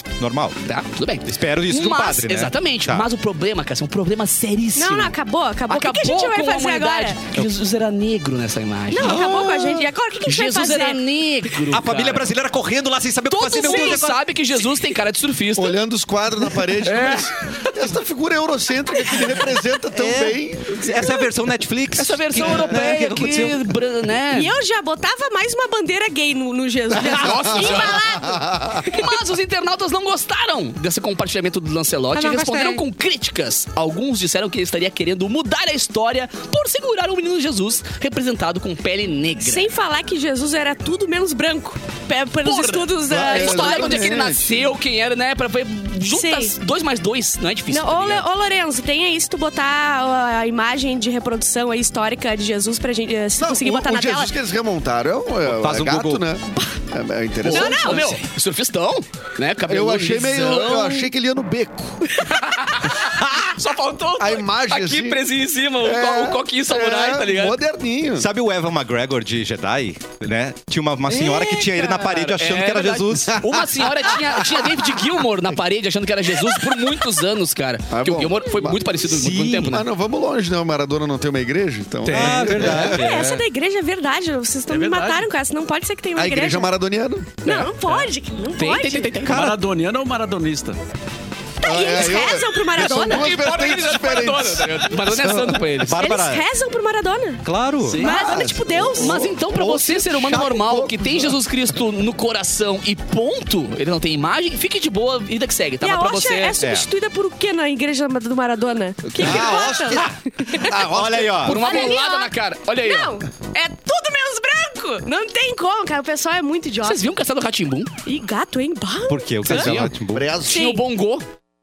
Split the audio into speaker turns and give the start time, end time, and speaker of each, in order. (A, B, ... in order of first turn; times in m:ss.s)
0:00.2-0:00.6 A
0:00.6-0:05.2 B
0:01.3-0:03.1 A
0:04.8-0:07.2 C
0:05.7-0:09.3 B
0:08.9-0:11.0 C
0:09.0-0:09.9 A
0:10.2-0:12.3 B
0:11.7-0:14.2 A
0:13.3-0:15.8 B
0:13.6-0:14.0 C
0:15.6-0:21.2 D
0:16.8-0:17.3 B
0:19.9-0:23.7 A
0:22.0-0:24.5 B
0:24.3-0:29.1 C
0:27.0-0:28.2 B
0:27.8-0:28.9 D
0:28.8-0:39.7 B
0:32.1-0:32.8 C
0:32.3-0:32.8 A
0:39.4-0:44.2 C
0:42.4-0:48.3 B
0:43.1-0:44.8 D
0:46.0-0:46.5 C
0:47.7-0:54.3 C
0:53.4-0:58.2 D
0:55.5-0:56.2 A
0:57.4-1:01.1 B
0:57.5-0:58.1 C
0:59.7-1:02.2 D
1:02.2-1:07.6 B
1:04.2-1:05.3 D
1:05.8-1:08.3 D
1:08.2-1:13.5 A
1:11.1-1:19.9 B
1:13.3-1:14.7 D
1:17.9-1:19.0 D
1:19.1-1:19.7 A
1:19.6-1:23.1 D
1:22.0-1:22.9 E
1:22.1-1:23.4 A
1:22.8-1:26.7 C
1:24.7-1:25.3 E
1:26.1-1:27.4 D
1:27.4-1:29.2 C
1:27.4-1:29.4 B
1:29.2-1:29.6 A
1:29.3-1:30.8 E
1:31.6-1:33.3 C
1:31.6-1:35.6 D
1:32.8-1:36.0 B
1:35.8-1:36.5 A
1:36.0-1:39.3 C
1:37.4-1:38.0 A
1:37.8-1:38.3 B
1:38.0-1:41.4 D
1:38.9-1:46.6 B
1:45.8-1:50.8 C
1:46.6-1:46.9 A
1:49.2-1:50.1 A
1:49.2-1:52.0 D
1:50.8-1:51.7 A
1:51.4-1:53.2 B
1:51.4-1:57.0 C
1:56.8-1:57.9 B
1:58.1-1:59.8 C
1:59.1-2:00.4 A
1:59.4-1:59.9 B
2:00.1-2:00.8 D
2:00.4-2:01.3 B
2:00.5-2:00.8 C